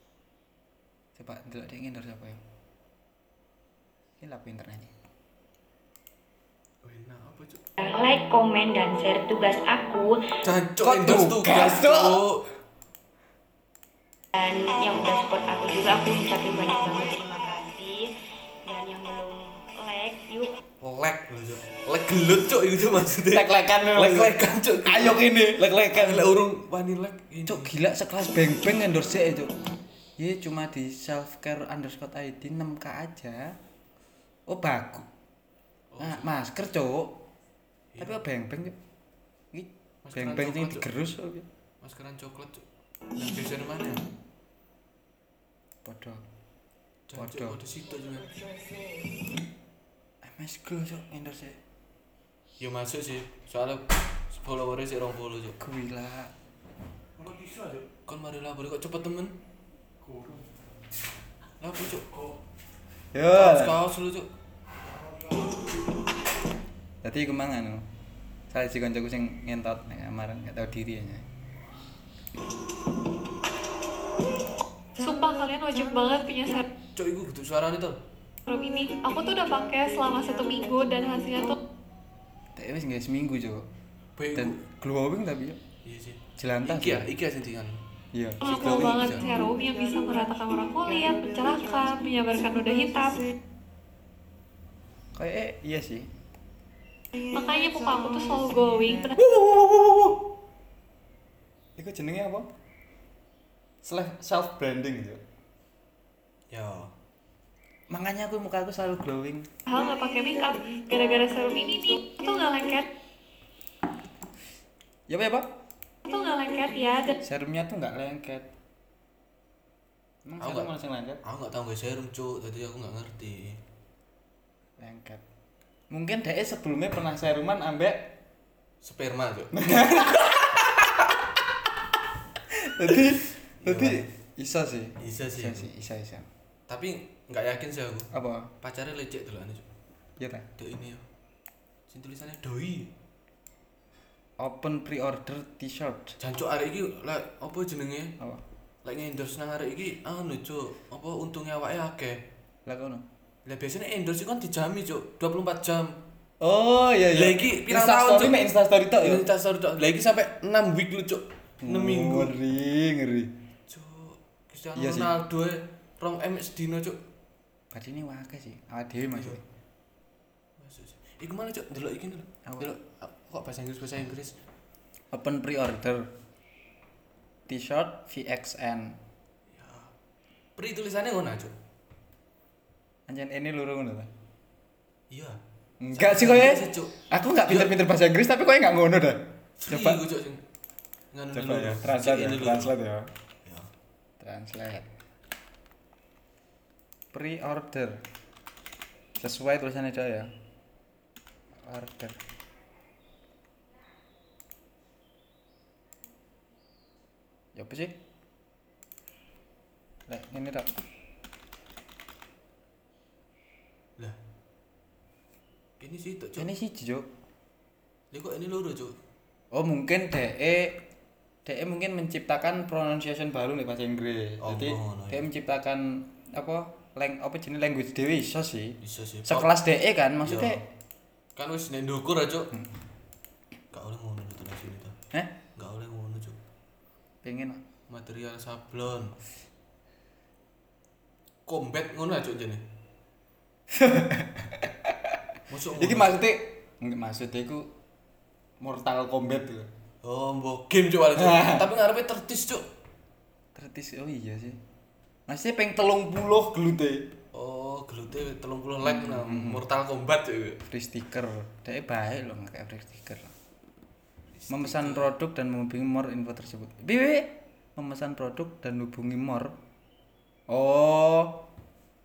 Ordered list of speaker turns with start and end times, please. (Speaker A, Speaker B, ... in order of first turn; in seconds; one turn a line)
Speaker A: 1.1-2.4
Speaker A: 4.2-4.9
Speaker B: 6.8-7.6
Speaker C: 7.8-10.3
Speaker B: 10.4-12.5
Speaker A: 10.8-12.2
Speaker C: 14.3-18.1
Speaker C: 18.6-20.6
Speaker B: 20.8-27.7
Speaker A: 23.3-26.3
Speaker A: 27.5-29.5
Speaker A: 30.2-33.6
Speaker A: 34.5-35.1
Speaker B: 35.9-36.3
Speaker A: 36.0-37.2
Speaker A: 38.0-38.8
Speaker A: 39.5-41.5
Speaker B: 40.0-40.9
Speaker B: 41.8-44.0
Speaker A: 45.8-46.2
Speaker B: 47.1-48.3
Speaker A: 47.2-47.6
Speaker A: 50.2-51.6
Speaker B: 52.6-55.6
Speaker A: 55.6-56.3
Speaker B: 57.6-59.4
Speaker B: 61.6-62.2
Speaker A: 63.1-63.8
Speaker B: 63.3-64.3
Speaker A: 67.0-67.9
Speaker A: 68.5-71.3
Speaker D: 75.0-76.7
Speaker B: 77.0-78.0
Speaker D: 78.5-81.6
Speaker A: 82.5-83.7
Speaker B: 84.2-84.6
Speaker A: 84.3-85.6
Speaker B: 85.8-87.8
Speaker A: 86.4-87.1
Speaker A: 88.1-89.1
Speaker D: 88.4-93.3
Speaker B: 88.4-89.3
Speaker A: 95.1-96.1
Speaker D: 97.1-99.2
Speaker A: 99.4-100.2
Speaker A: 101.8-102.5
Speaker A: 103.8-105.2
Speaker B: 106.5-106.9
Speaker A: 107.9-109.5
Speaker D: 109.7-112.9
Speaker A: 115.1-115.5
Speaker D: 116.1-117.2
Speaker A: 117.2-118.5
Speaker A: 120.2-121.2
Speaker B: 120.4-120.7
Speaker B: 121.2-123.6
Speaker A: 124.8-125.2
Speaker A: 125.9-128.2
Speaker B: 128.8-129.9
Speaker A: 129.5-130.9
Speaker A: 132.5-136.3
Speaker B: 132.9-134.1
Speaker B: 135.0-135.7
Speaker B: 136.7-138.1
Speaker A: 138.1-138.5
Speaker B: 138.6-139.7
Speaker A: 140.2-140.5
Speaker B: 140.6-141.1
Speaker B: 141.9-142.9
Speaker A: 144.4-146.2
Speaker B: 146.2-148.2
Speaker B: 148.8-152.2
Speaker A: 152.7-153.1
Speaker B: 153.5-156.0
Speaker A: 156.4-159.2
Speaker B: 157.1-158.5
Speaker B: 159.0-162.3
Speaker A: 161.6-163.3
Speaker B: 163.7-167.0
Speaker A: 164.8-165.1
Speaker A: 167.7-169.4
Speaker B: 169.1-169.4
Speaker B: 170.6-174.4
Speaker A: 172.5-172.7
Speaker A: 175.1-176.1
Speaker A: 177.5-179.0
Speaker B: 179.5-179.9
Speaker B: 180.6-181.6
Speaker A: 183.1-184.1
Speaker B: 185.1-185.4
Speaker A: 185.8-190.0
Speaker B: 185.9-187.8
Speaker B: 189.6-190.4
Speaker B: 191.1-192.7
Speaker A: 191.3-193.1
Speaker B: 193.4-193.7
Speaker A: 194.2-194.9
Speaker A: 197.1-198.0
Speaker A: 199.2-200.3
Speaker A: 201.6-202.2
Speaker A: 207.6-208.0
Speaker A: 210.1-210.8
Speaker B: 215.8-216.5
Speaker A: 216.4-217.1
Speaker B: 218.1-219.0
Speaker A: 219.5-220.8
Speaker A: 221.4-230.6
Speaker B: 224.4-225.3
Speaker B: 228.8-229.5
Speaker B: 230.2-230.6
Speaker B: 231.4-232.5
Speaker B: 233.7-235.0
Speaker B: 235.6-236.4
Speaker A: 237.2-237.6
Speaker B: 237.9-239.2
Speaker B: 241.5-242.6
Speaker A: 243.7-245.2
Speaker B: 245.5-246.2
Speaker A: 245.8-247.7
Speaker A: 248.6-249.7
Speaker B: 250.0-252.7
Speaker A: 251.2-251.7
Speaker A: 253.6-254.6
Speaker A: 255.3-257.1
Speaker B: 257.3-260.6
Speaker A: 258.8-259.6
Speaker A: 260.6-263.3
Speaker B: 264.3-265.1
Speaker A: 264.5-269.6
Speaker A: 270.5-271.4